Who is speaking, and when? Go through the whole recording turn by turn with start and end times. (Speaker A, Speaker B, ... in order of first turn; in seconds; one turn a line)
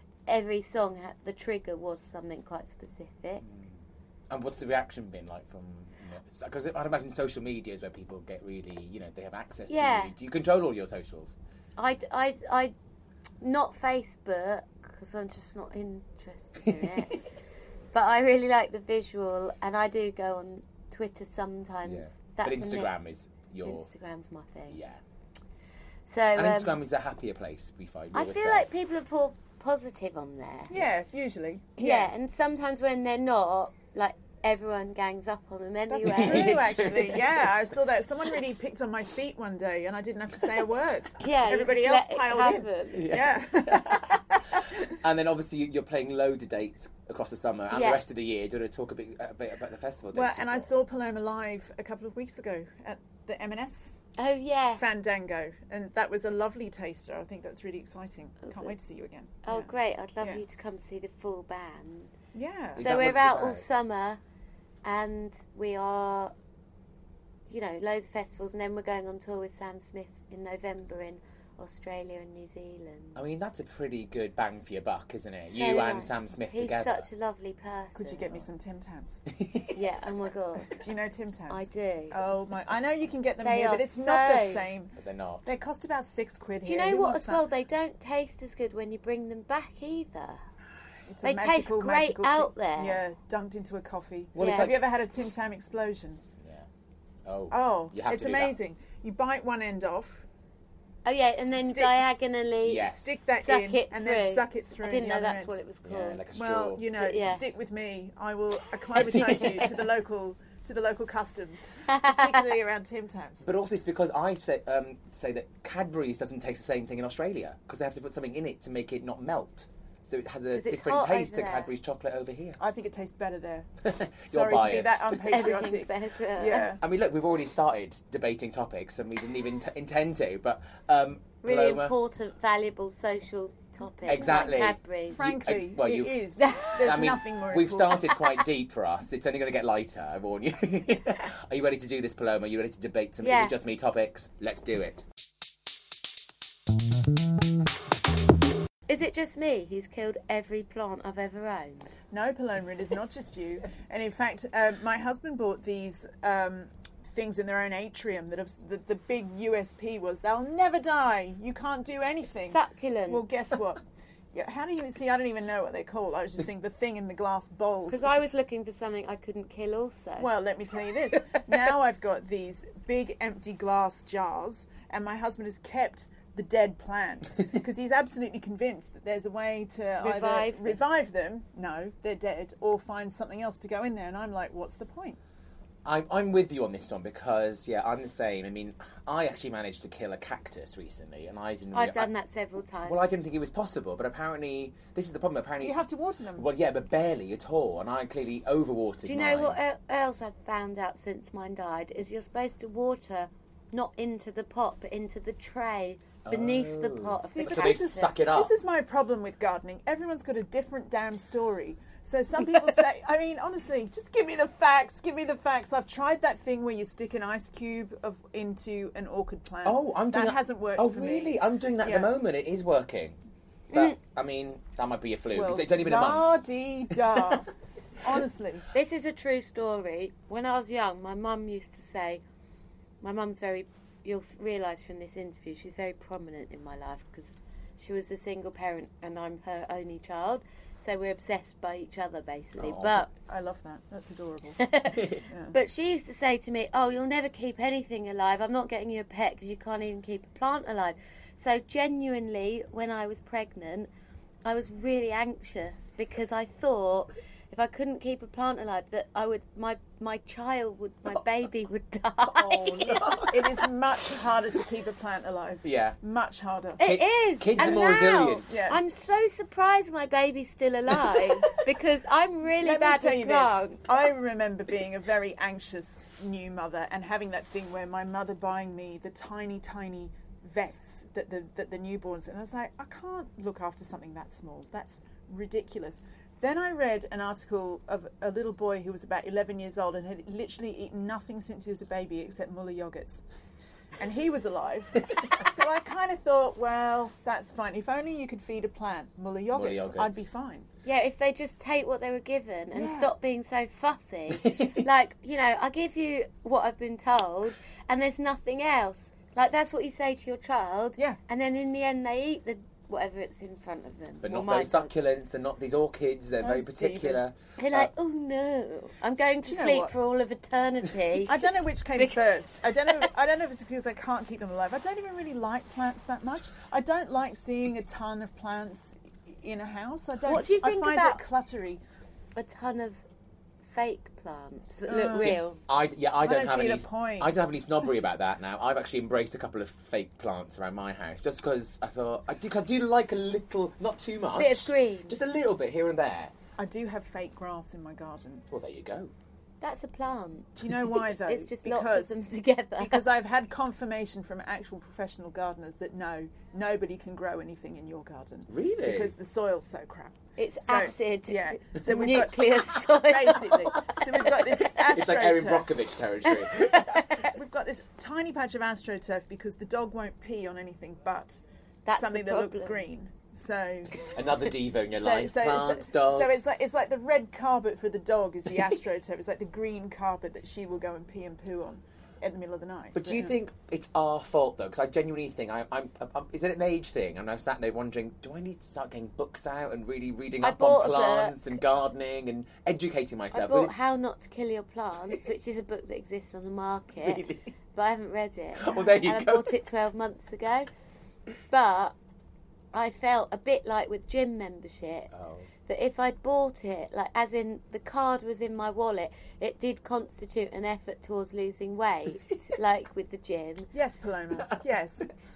Speaker A: 0.3-3.4
Speaker B: 3.4-3.7
Speaker B: 4.3-11.4
Speaker A: 9.7-10.1
Speaker A: 11.8-12.7
Speaker A: 13.4-17.2
Speaker B: 16.7-17.0
Speaker A: 17.9-22.9
Speaker B: 21.9-23.9
Speaker A: 23.6-24.8
Speaker B: 24.7-25.0
Speaker A: 26.1-26.8
Speaker B: 26.4-28.7
Speaker A: 28.1-30.7
Speaker C: 30.7-32.1
Speaker A: 31.8-37.0
Speaker C: 35.9-44.9
Speaker B: 36.0-37.2
Speaker A: 41.2-43.1
Speaker B: 42.9-44.2
Speaker B: 44.9-50.7
Speaker A: 47.7-48.0
Speaker C: 50.1-54.0
Speaker A: 54.2-54.8
Speaker C: 54.7-60.4
Speaker A: 58.4-58.8
Speaker A: 59.4-62.1
Speaker C: 62.3-62.8
Speaker B: 62.8-63.6
Speaker A: 62.8-64.2
Speaker A: 64.8-66.3
Speaker A: 67.5-73.2
Speaker B: 73.2-77.1
Speaker A: 75.5-78.4
Speaker C: 78.0-79.2
Speaker B: 79.3-79.7
Speaker A: 79.7-80.8
Speaker C: 80.7-87.4
Speaker A: 81.5-82.2
Speaker A: 83.4-84.7
Speaker B: 85.0-85.5
Speaker A: 86.6-90.4
Speaker C: 91.1-96.2
Speaker A: 91.2-93.0
Speaker B: 94.3-94.8
Speaker A: 94.4-94.7
Speaker B: 96.4-96.7
Speaker B: 97.3-98.6
Speaker C: 97.5-100.2
Speaker A: 101.0-106.2
Speaker C: 101.2-102.2
Speaker B: 102.6-103.1
Speaker C: 102.8-105.6
Speaker B: 105.8-106.8
Speaker C: 106.3-113.5
Speaker A: 106.9-107.4
Speaker A: 109.0-109.7
Speaker A: 111.9-112.5
Speaker B: 113.4-122.6
Speaker A: 120.5-121.7
Speaker C: 122.6-123.7
Speaker B: 123.8-125.2
Speaker C: 124.2-126.8
Speaker A: 125.3-126.7
Speaker B: 126.8-131.9
Speaker A: 131.4-135.3
Speaker B: 134.1-136.1
Speaker C: 134.1-134.5
Speaker C: 135.1-138.2
Speaker A: 136.4-136.8
Speaker B: 136.8-145.0
Speaker A: 143.2-143.5
Speaker A: 148.9-151.9
Speaker C: 152.1-168.2
Speaker A: 162.5-163.3
Speaker A: 167.9-170.3
Speaker C: 170.2-185.2
Speaker A: 180.0-180.8
Speaker B: 185.8-192.1
Speaker A: 191.7-193.0
Speaker B: 192.8-195.8
Speaker C: 195.6-196.5
Speaker B: 196.4-199.6
Speaker A: 199.1-208.2
Speaker B: 206.3-208.5
Speaker C: 207.3-222.1
Speaker B: 219.7-223.2
Speaker B: 223.7-226.3
Speaker C: 225.3-227.5
Speaker C: 228.0-228.7
Speaker A: 228.7-232.2
Speaker A: 233.0-243.1
Speaker B: 242.6-243.0
Speaker C: 243.3-244.7
Speaker A: 244.6-253.9
Speaker C: 245.2-245.6
Speaker A: 254.4-263.2
Speaker B: 262.3-263.5
Speaker C: 263.2-266.9
Speaker B: 265.6-266.0
Speaker A: 266.8-273.9
Speaker B: 266.8-268.5
Speaker C: 267.6-267.9
Speaker C: 268.5-268.8
Speaker C: 272.6-293.2
Speaker C: 294.0-300.7
Speaker B: 299.5-300.2
Speaker A: 300.9-315.0
Speaker C: 302.7-303.1
Speaker B: 304.4-304.8
Speaker B: 314.2-317.9
Speaker C: 316.4-317.3
Speaker A: 317.6-321.4
Speaker C: 319.4-319.9
Speaker C: 321.3-331.8
Speaker A: 330.3-331.2
Speaker A: 332.4-333.0
Speaker A: 333.7-335.6
Speaker C: 334.9-335.4
Speaker B: 335.1-346.3
Speaker C: 336.2-337.3
Speaker A: 344.4-345.2
Speaker C: 346.6-348.5
Speaker B: 348.5-349.1
Speaker A: 349.6-350.6
Speaker C: 350.6-352.2
Speaker A: 351.2-353.1
Speaker C: 352.8-365.7
Speaker B: 358.5-359.1
Speaker A: 360.4-364.8
Speaker B: 364.9-367.0
Speaker A: 366.6-367.3
Speaker C: 367.2-374.0
Speaker A: 371.9-372.8
Speaker B: 374.1-376.4
Speaker C: 374.9-383.4
Speaker B: 382.9-393.8
Speaker A: 390.4-391.6
Speaker A: 393.3-400.7
Speaker B: 397.0-397.5
Speaker B: 398.6-399.5
Speaker A: 401.5-401.9
Speaker A: 402.7-405.1
Speaker B: 405.1-405.5
Speaker A: 405.7-413.7
Speaker C: 413.7-415.1